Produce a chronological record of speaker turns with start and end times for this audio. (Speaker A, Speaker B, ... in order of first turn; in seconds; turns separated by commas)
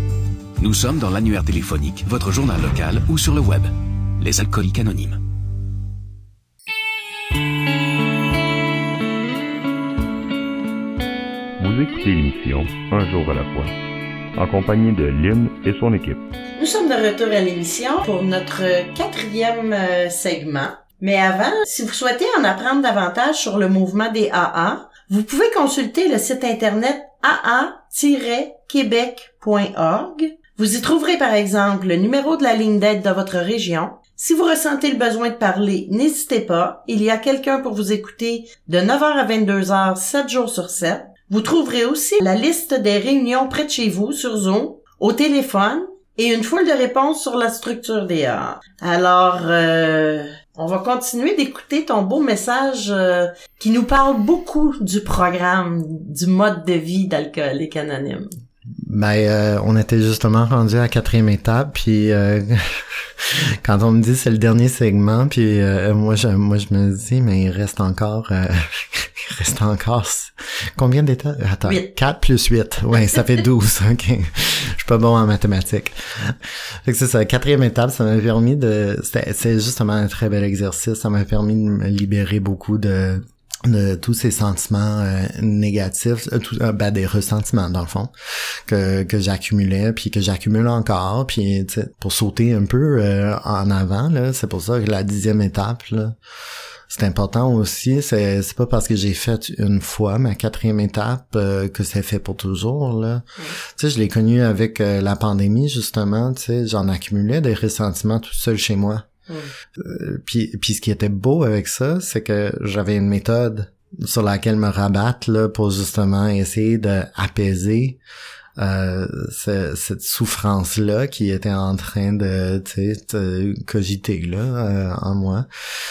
Speaker A: 0.6-5.2, Speaker B: 11.6-13.7, Speaker B: 14.3-16.2, Speaker C: 16.6-58.3, Speaker D: 58.8-88.1, Speaker C: 71.6-71.9, Speaker D: 88.7-96.2, Speaker D: 96.9-109.0, Speaker D: 109.8-118.0, Speaker D: 118.6-125.5